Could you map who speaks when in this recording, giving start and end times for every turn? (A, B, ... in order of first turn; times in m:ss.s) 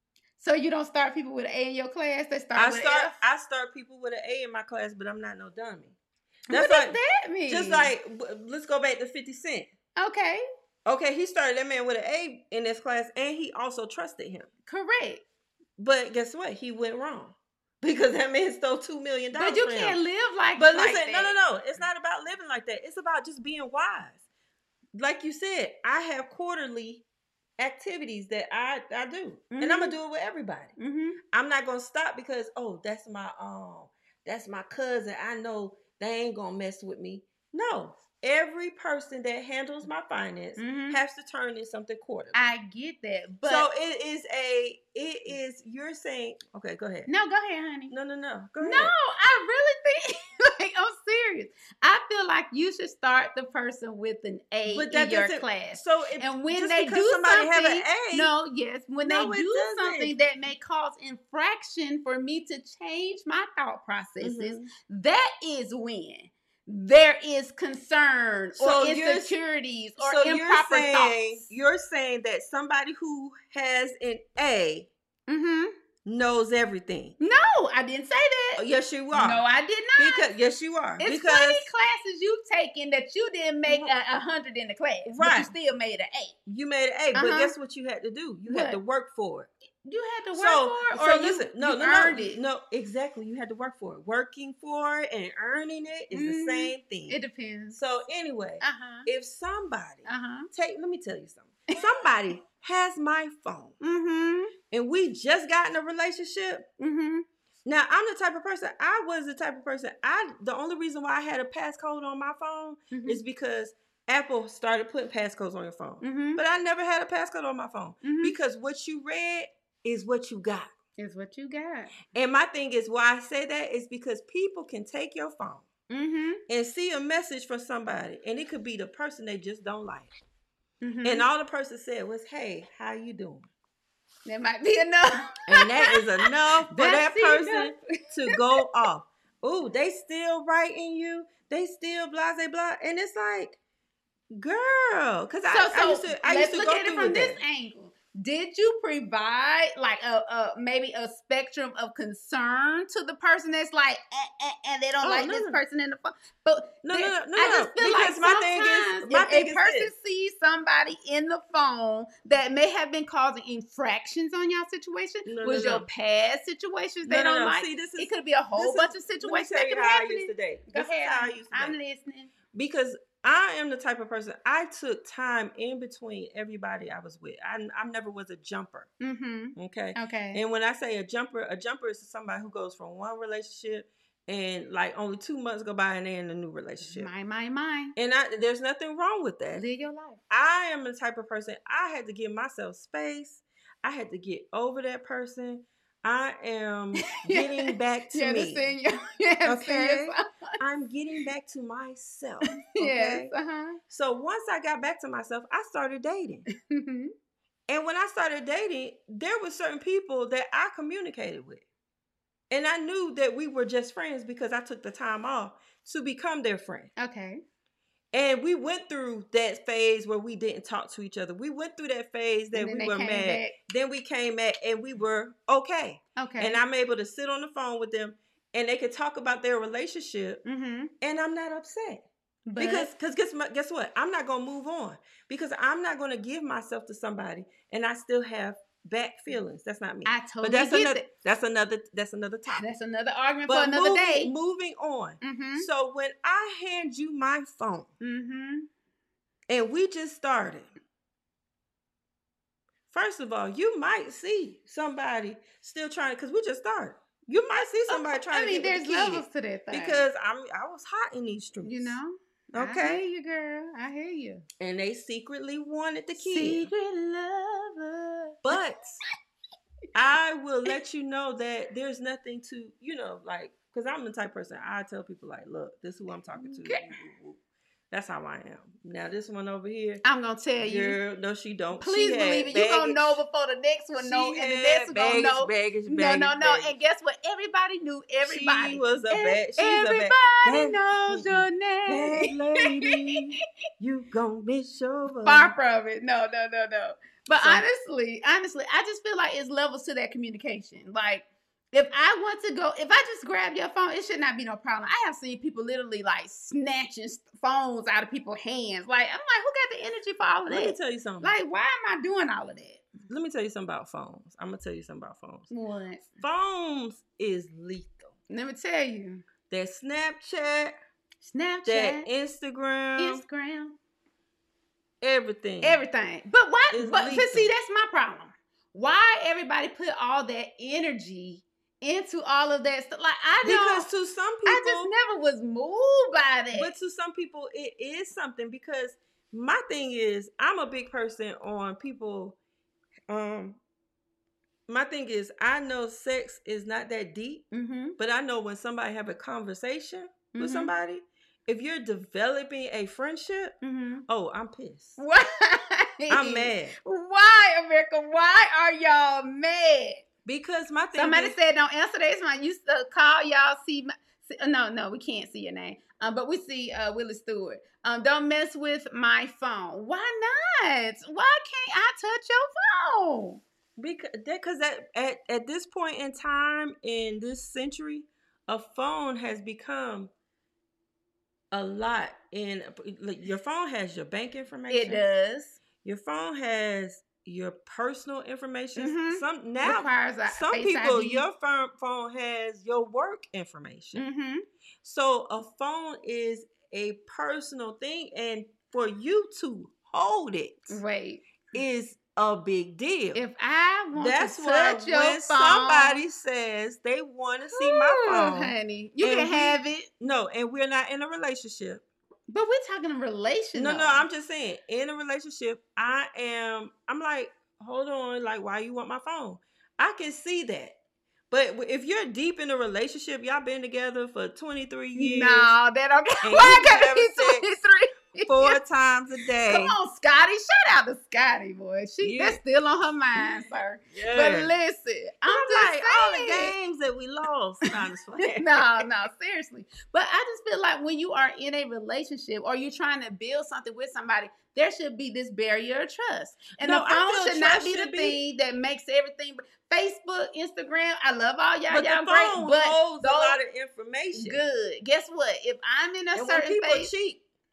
0:00.4-0:03.2 A
0:02.6-0:06.0 B
0:06.5-0:07.0 B
0:06.5-0:07.9 A
0:07.5-0:09.7 B
0:10.0-0:10.4 A
0:10.9-0:14.5 B
0:14.7-0:15.2 A
0:15.8-0:20.0 B
0:19.4-0:21.4 A
0:20.6-0:24.2 B
0:24.9-0:27.0 B
0:27.6-0:30.7 B
0:29.5-0:30.0 A
0:30.8-0:31.2 A
0:31.3-0:42.4 B
0:40.6-0:41.0 A
0:42.3-0:43.7 A
0:43.4-0:47.1 B
0:47.1-0:47.9 A
0:47.9-0:48.9 B
0:48.6-1:11.4 A
0:54.7-0:58.3 B
0:59.0-1:00.2 B
1:04.2-1:04.7 B
1:08.6-1:09.4 B
1:10.0-1:14.9 B
1:15.3-1:15.7 A
1:16.0-1:17.2 B
1:17.2-1:20.3 A
1:18.6-1:19.4 B
1:20.0-1:21.7 B
1:21.0-1:26.4 A
1:25.1-1:25.5 B
1:26.5-1:29.5 B
1:27.2-1:27.5 A
1:28.5-1:28.8 A
1:29.8-1:32.4 A
1:30.3-1:37.2 B
1:36.1-1:37.8 A
1:37.7-1:43.8 B
1:38.6-1:39.1 A
1:40.1-1:40.5 A
1:43.8-1:44.5 A
1:44.7-1:46.7 B
1:46.8-1:47.3 A
1:47.7-2:00.7 B
1:52.9-1:53.2 A
1:56.0-1:56.4 A
1:58.0-1:58.3 A
2:01.0-2:02.0 A
2:02.1-2:05.7 B
2:05.9-2:06.4 A
2:06.5-2:10.1 B
2:10.8-2:11.3 A
2:11.0-2:13.5 B
2:14.3-2:18.6 A
2:15.5-2:23.6 B
2:24.3-2:27.4 B
2:25.5-2:52.3 A
2:35.0-2:35.6 B
2:36.8-2:39.9 B
2:45.3-2:45.9 B
2:47.1-2:51.8 B
2:52.5-2:58.9 B
2:59.0-3:00.4 A
2:59.6-3:07.1 B
3:06.9-3:07.9 A
3:08.0-3:09.6 B
3:09.6-3:10.2 A
3:10.3-3:18.7 B
3:17.1-3:20.6 A
3:19.4-3:23.3 B
3:22.7-3:23.8 A
3:23.9-3:26.5 B
3:26.6-3:27.1 A
3:27.7-3:31.6 B
3:32.5-3:36.9 B
3:37.0-3:37.4 A
3:38.1-3:50.4 B
3:42.5-3:43.5 A
3:46.2-3:46.6 A
3:50.4-3:50.9 A
3:51.0-3:52.0 B
3:52.5-3:52.9 A
3:52.6-4:02.7 B
4:00.1-4:01.1 A
4:02.5-4:04.3 A
4:03.5-4:07.9 B
4:05.2-4:05.7 A
4:08.0-4:08.7 A
4:09.5-4:10.7 B
4:12.9-4:22.0 B
4:17.9-4:20.1 A
4:21.6-4:24.4 A
4:22.5-4:23.0 B
4:24.6-4:26.7 B
4:26.2-4:28.6 A
4:28.4-4:29.0 B
4:30.0-4:37.4 B
4:36.4-4:37.1 A
4:37.9-4:40.0 B
4:40.0-4:41.0 A
4:40.6-4:43.2 B
4:41.8-4:53.0 A
4:44.0-4:46.8 B
4:48.2-4:55.5 B
4:55.2-5:12.9 A
4:57.4-4:57.6 B
5:10.5-5:11.4 B
5:13.1-5:15.5 B
5:15.5-5:16.1 A
5:16.2-5:18.2 B
5:18.3-5:19.2 A
5:19.5-5:20.7 B
5:21.2-5:22.1 A
5:21.7-5:23.2 B
5:23.0-5:23.8 A
5:25.0-5:25.8 B
5:25.6-5:33.9 A
5:26.7-5:27.5 B
5:33.4-5:34.9 B
5:34.5-5:36.7 A
5:36.5-5:42.4 B
5:43.1-5:43.6 B
5:44.7-5:47.5 B
5:47.5-5:48.0 A
5:48.0-5:53.6 B
5:50.3-5:50.7 A
5:53.6-5:54.0 A
5:54.1-5:55.0 B
5:55.0-6:00.0 A
5:56.1-5:56.8 B
6:00.2-6:01.4 B
6:01.0-6:13.4 A
6:13.8-6:20.1 B
6:21.5-6:25.0 B
6:24.7-6:25.6 A
6:25.8-6:34.0 B
6:28.8-6:31.2 A
6:34.0-6:34.4 A
6:34.8-6:40.8 B
6:40.7-6:41.2 A
6:41.5-6:43.2 B
6:43.1-6:46.0 A
6:43.9-6:51.9 B
6:47.5-6:49.9 A
6:52.3-6:54.0 A
6:53.6-7:00.8 B
7:01.3-7:05.6 B
7:05.0-7:08.6 A
7:06.2-7:07.5 B
7:08.3-7:09.8 B
7:09.5-7:16.6 A
7:12.0-7:12.4 B
7:13.2-7:14.5 B
7:15.3-7:18.9 B
7:18.4-7:33.4 A
7:26.6-7:28.2 B
7:31.7-7:34.4 B
7:34.1-7:36.9 A
7:36.2-7:37.2 B